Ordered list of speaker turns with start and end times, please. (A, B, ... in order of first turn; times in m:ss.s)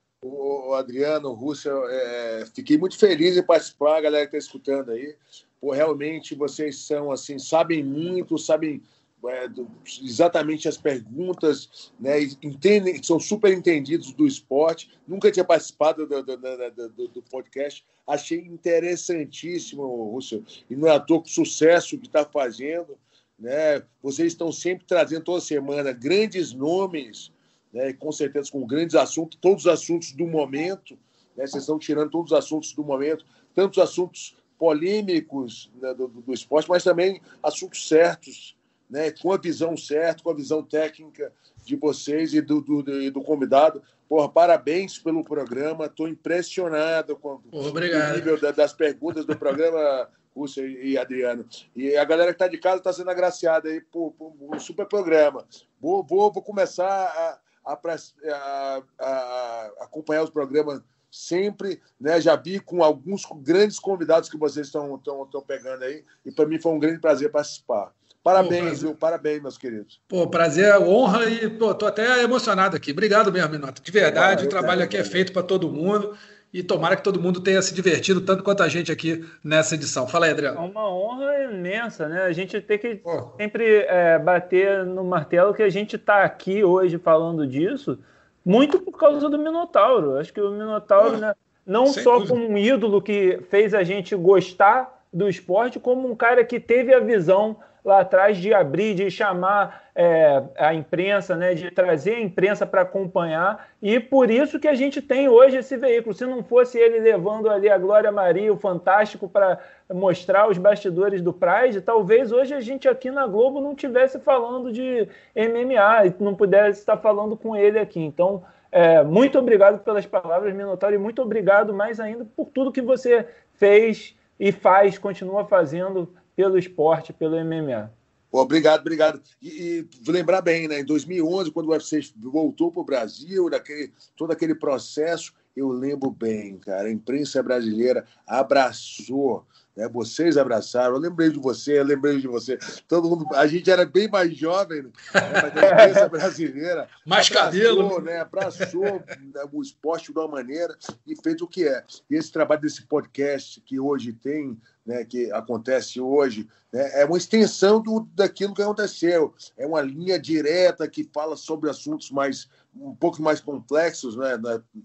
0:00.2-1:10.0 A
0:47.5-0:48.3 B
1:08.4-1:08.9 B
1:10.1-1:20.6 B
1:14.1-1:15.3 A
1:20.6-2:07.9 C
1:23.0-1:23.4 B
1:31.9-1:32.4 B
2:08.3-2:44.7 A
2:25.2-2:25.9 B
2:25.6-2:26.0 C
2:27.1-2:28.9 B